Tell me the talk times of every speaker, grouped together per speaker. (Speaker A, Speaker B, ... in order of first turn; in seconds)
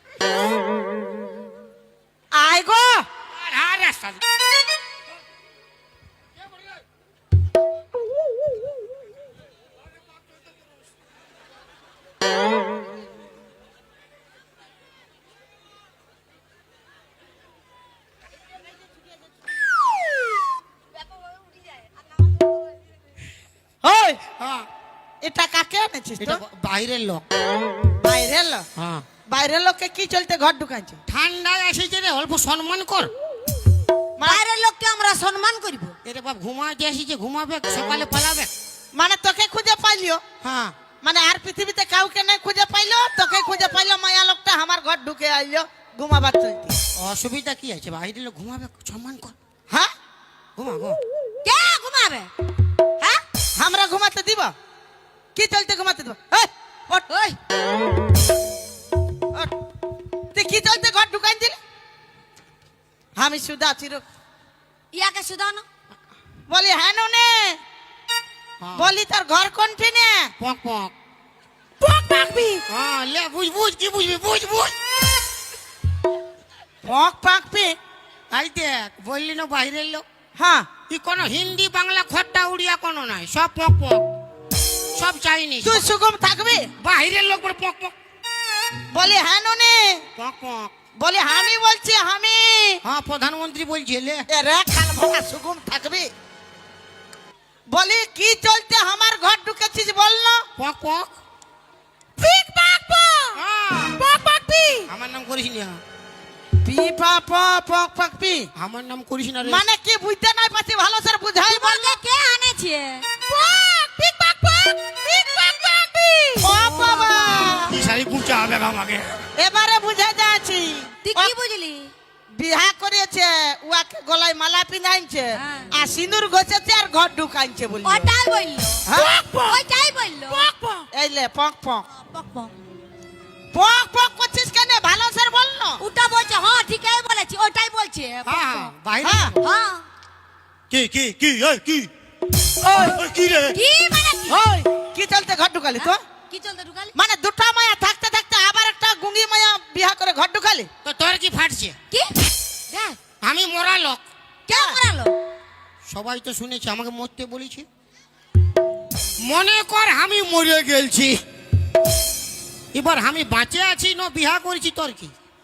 Speaker A: 2.3-3.0, 23.8-24.2, 25.2-26.4, 28.0-28.6, 29.3-31.0, 34.2-34.4, 38.9-40.2, 41.0-46.8, 53.5-54.5, 55.4-57.0, 60.3-61.6, 63.1-64.0, 66.5-67.6, 68.8-70.3, 71.8-72.6, 76.8-77.8, 80.3-80.7, 85.6-86.7, 88.9-90.0, 91.0-92.8, 94.3-96.1, 97.7-100.5, 102.3-103.2, 103.9-104.8, 106.6-108.5, 109.4-112.0, 113.3-117.7, 119.4-121.3, 122.3-128.1, 128.8-129.6, 130.3-131.8, 133.5-135.8, 139.0-139.3, 142.6-143.0, 144.3-146.0, 146.9-150.7, 154.5-154.8
Speaker B: 3.3-4.2, 24.4-24.7, 26.2-27.2, 28.8-29.1, 31.1-33.1, 36.0-38.5, 40.4-40.7, 46.9-49.4, 50.5-51.0, 68.6-68.9, 70.4-70.9, 72.7-74.8, 78.3-80.0, 80.9-84.0, 84.9-85.8, 86.8-87.9, 90.2-90.7, 92.8-94.2, 100.6-101.1, 103.3-104.0, 104.9-105.8, 108.5-109.6, 117.7-119.2, 138.2-139.4, 140.7-141.9, 142.9-143.6, 150.8-151.8, 153.2-154.0, 155.8-157.7, 159.2-161.2, 162.7-165.1
Speaker C: 34.2-35.9, 51.4-52.3, 57.1-57.4, 64.9-65.7, 102.2-103.3, 111.4-113.1, 116.2-117.6, 121.0-121.9, 125.3-125.7, 127.8-130.5, 131.9-132.5, 135.8-138.7, 139.4-139.9, 143.5-144.4, 145.8-146.9, 152.7-153.0, 154.5-155.1